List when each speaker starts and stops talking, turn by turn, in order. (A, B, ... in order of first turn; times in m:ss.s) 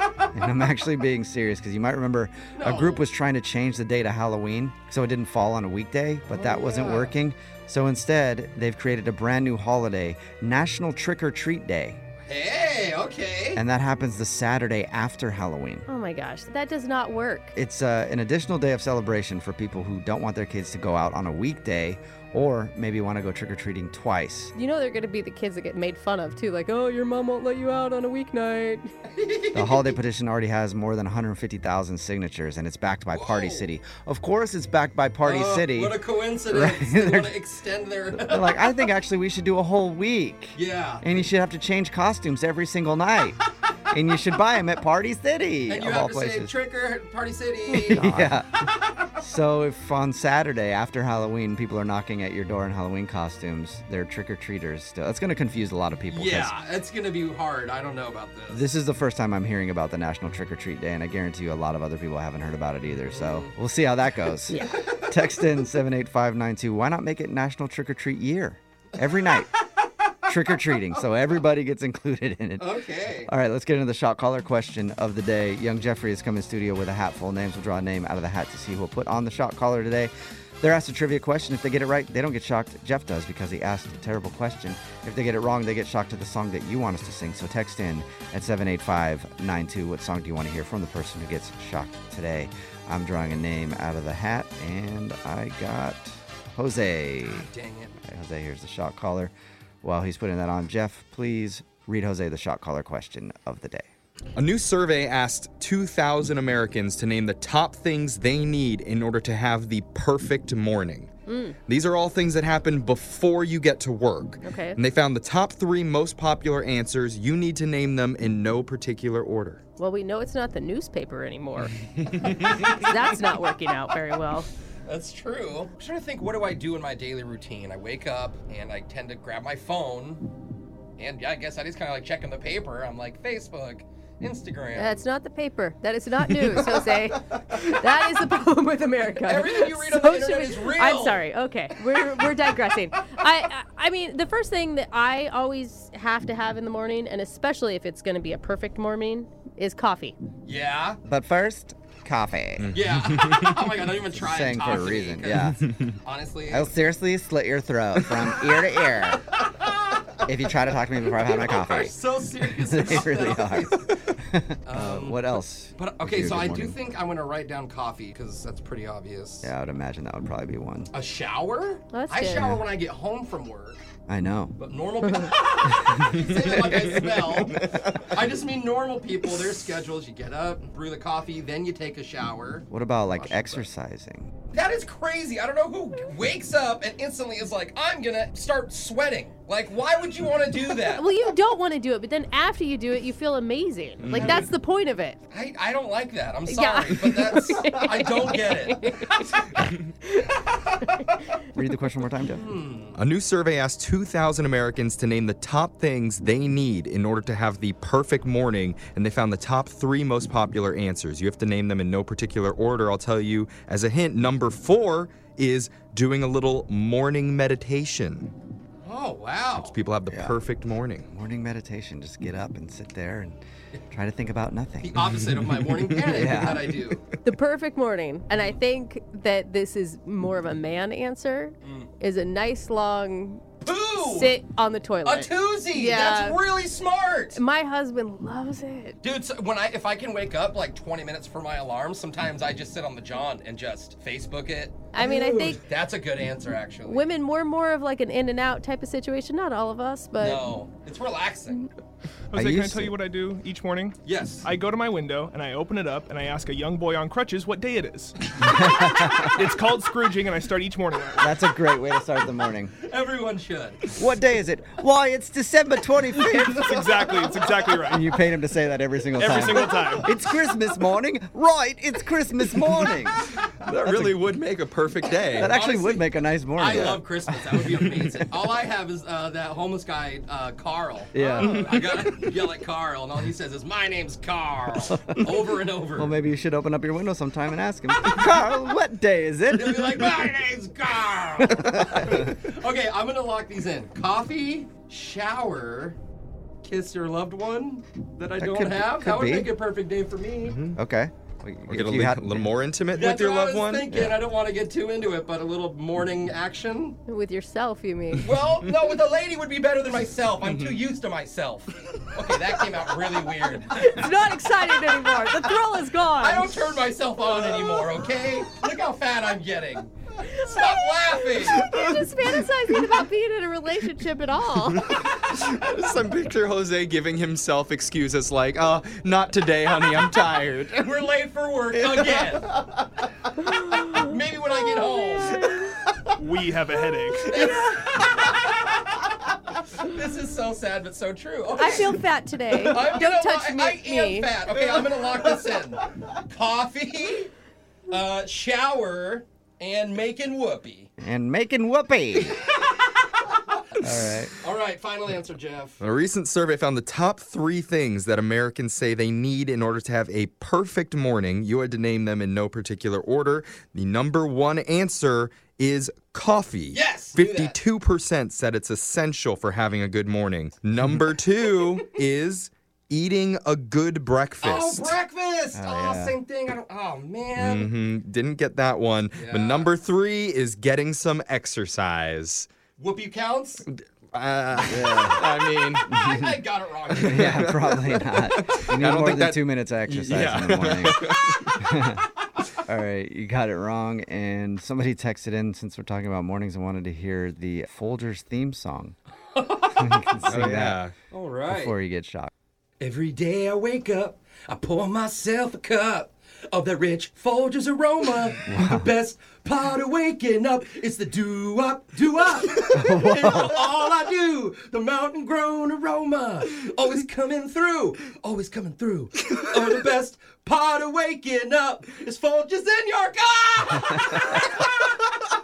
0:00.3-0:12.0 A
0:02.5-0:03.0 B
0:06.3-0:07.2 B
0:12.2-0:13.6 B
0:13.5-0:15.8 A
0:15.9-0:17.5 C
0:17.5-0:24.5 A
0:24.5-0:28.9 C
0:29.1-0:30.0 B
0:29.5-0:37.4 A
0:33.1-0:33.7 B
0:35.2-0:38.7 B
0:38.1-0:43.4 A
0:40.5-0:41.0 B
0:43.9-0:46.5 A
0:45.7-0:48.4 B
0:47.7-0:48.5 A
0:49.2-0:56.5 A
0:56.1-0:58.7 B
0:58.5-1:09.5 A
1:03.0-1:03.6 B
1:04.5-1:05.2 B
1:10.2-1:37.5 A
1:12.6-1:13.3 B
1:37.2-1:38.0 B
1:38.0-1:43.9 A
1:44.3-1:51.1 D
1:51.2-1:51.6 C
1:51.7-1:59.6 D
1:54.4-1:54.8 C
1:59.8-2:01.8 C
2:02.3-2:02.8 B
2:02.4-2:04.5 C
2:04.8-2:10.3 B
2:11.0-2:15.0 B
2:14.7-2:30.2 C
2:19.2-2:21.3 B
2:30.4-2:31.0 B
2:31.0-2:32.7 A
2:32.6-2:33.6 D
2:32.7-2:36.7 B
2:34.2-2:35.7 A
2:36.5-2:39.3 A
2:39.3-2:40.0 B
2:40.2-2:46.8 A
2:41.1-2:44.0 B
2:44.6-2:49.5 B
2:49.4-2:50.9 A
2:50.9-2:53.8 B
2:51.9-2:52.5 C
2:52.3-2:52.6 A
2:54.1-2:54.6 A
2:54.6-3:03.6 B
2:55.9-2:58.1 D
3:02.7-3:04.3 A
3:04.5-3:11.1 B
3:10.8-3:15.2 C
3:14.0-3:14.4 D
3:14.2-3:14.5 B
3:15.3-3:19.5 B
3:16.5-3:18.9 C
3:21.5-3:22.4 A
3:22.2-3:23.0 B
3:22.9-3:38.3 D
3:38.8-3:39.8 B
3:39.6-3:41.1 D
3:40.1-3:40.4 A
3:41.1-3:43.4 A
3:43.9-3:45.0 A
3:44.8-3:47.1 B
3:46.1-3:46.7 A
3:47.2-3:53.4 C
3:51.6-3:51.9 B
3:53.6-3:54.4 B
3:54.0-3:56.4 C
3:55.0-3:57.4 B
3:57.3-3:59.0 C
3:59.0-4:07.1 B
4:04.9-4:05.6 C
4:06.8-4:10.5 C
4:10.2-4:11.7 B
4:12.3-4:21.3 E
4:12.3-4:12.9 A
4:14.0-4:14.5 B
4:18.5-4:19.3 A
4:21.2-4:22.7 A
4:22.8-4:23.9 B
4:23.9-4:27.2 A
4:26.2-4:28.1 E
4:27.8-4:34.1 A
4:29.2-4:30.1 E
4:33.4-4:35.5 D
4:35.3-4:38.3 A
4:35.4-4:46.1 B
4:41.1-4:41.6 A
4:41.4-4:42.1 D
4:44.9-4:45.4 A
4:45.9-4:50.2 A
4:49.5-4:56.0 B
4:51.4-4:52.4 A
4:56.6-5:00.6 B
4:58.4-4:59.5 A
5:00.5-5:00.8 D
5:00.7-5:02.5 A
5:01.7-5:03.9 D
5:02.9-5:07.0 B
5:03.9-5:04.2 A
5:07.1-5:08.3 C
5:08.2-5:14.1 B
5:10.4-5:10.7 D
5:13.7-5:16.8 C
5:16.2-5:21.6 B
5:20.2-5:25.1 C
5:21.7-5:22.1 D
5:24.7-5:31.0 D
5:30.8-5:32.5 B
5:33.8-5:35.5 B
5:34.8-5:35.6 C
5:36.2-5:37.5 E
5:37.2-5:39.1 B
5:39.8-5:42.0 B
5:41.6-5:44.4 C
5:42.6-5:47.3 B
5:47.9-5:50.9 B
5:51.0-5:52.4 A
5:52.2-5:52.8 B
5:53.5-5:55.8 B
5:53.8-5:54.4 A
5:55.8-6:15.0 D
6:06.7-6:07.6 B
6:14.4-6:17.7 B
6:15.5-6:16.2 A
6:17.4-6:22.5 D
6:19.2-6:19.7 B
6:22.8-6:23.6 B
6:23.7-6:25.8 D
6:24.6-6:25.3 A
6:25.6-6:27.5 B
6:25.9-6:26.4 A
6:26.9-6:31.6 D
6:27.0-6:32.0 A
6:32.6-6:39.0 A
6:39.4-6:40.0 B
6:39.7-6:40.8 A
6:40.2-6:40.9 D
6:41.1-6:41.8 B
6:41.5-6:42.3 A
6:42.8-7:04.7 B
6:48.4-6:48.9 A
6:52.7-6:53.6 A